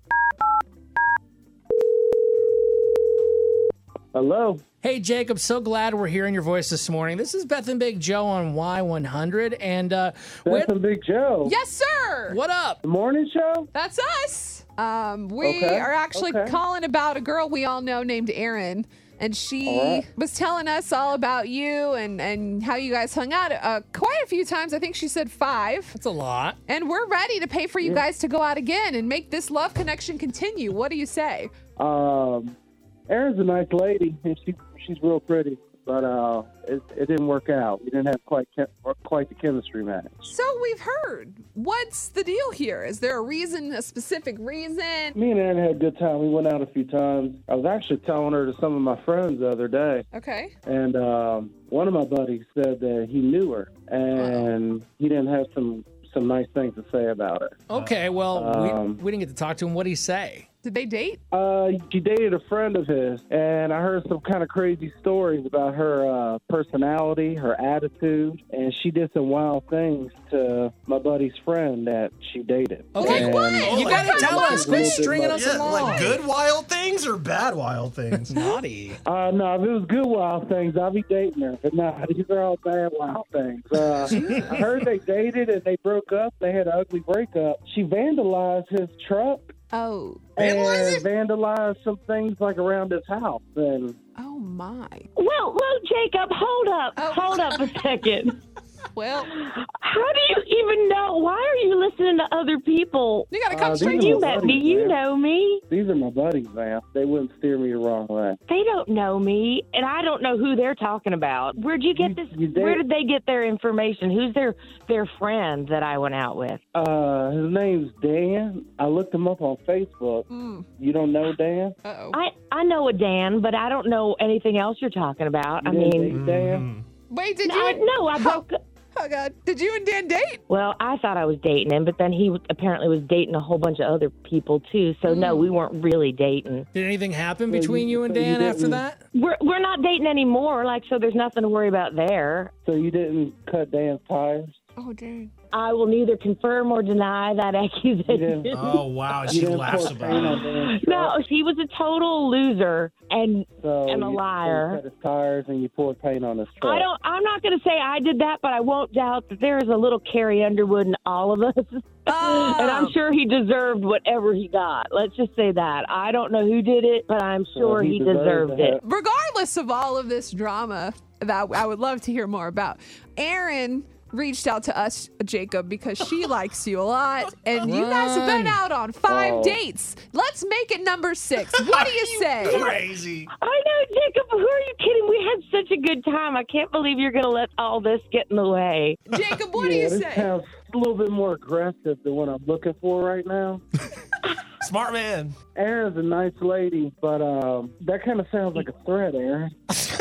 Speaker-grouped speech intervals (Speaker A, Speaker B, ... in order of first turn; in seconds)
Speaker A: 4.1-4.6, 10.5-11.6, 12.8-13.7, 15.4-16.6, 19.6-20.1, 27.8-28.1, 31.8-32.6, 33.1-40.3, 45.2-50.1, 50.6-57.6, 58.3-59.0, 61.3-76.1, 79.0-89.5, 90.4-94.0, 103.5-105.0, 105.7-108.4, 111.9-112.8, 116.7-121.8, 125.6-126.7, 137.5-138.8, 142.7-144.6, 148.1-148.7, 149.2-151.2, 153.6-156.9, 167.5-168.8, 179.1-179.6, 189.5-193.6, 195.6-199.5
Speaker B: 4.8-10.7, 12.3-12.8, 26.0-26.6, 57.7-60.5, 72.9-76.2, 78.3-79.0, 136.7-139.0, 177.6-178.6, 182.5-183.0
Speaker C: 11.4-12.4, 13.7-26.0, 26.7-31.5, 40.2-45.2, 50.1-50.5, 54.2-54.5, 60.6-61.2, 73.0-75.1, 84.1-84.5, 89.7-90.3, 94.2-95.1, 97.0-97.9, 98.9-99.3, 103.3-104.2, 120.3-120.7, 121.8-122.2, 127.1-128.4, 128.9-130.4, 135.1-135.5, 144.8-145.3, 162.1-163.0, 168.8-182.7, 189.1-190.3
Speaker D: 73.6-74.0, 75.3-78.3, 90.4-90.9, 126.1-126.8, 148.5-150.4, 182.5-183.3, 194.6-195.3
Speaker E: 95.2-98.4, 99.3-105.6, 108.5-116.6, 122.1-126.2, 127.5-128.6, 130.5-136.7, 139.1-142.5, 145.5-148.8, 149.3-154.8, 156.6-168.8, 183.3-189.0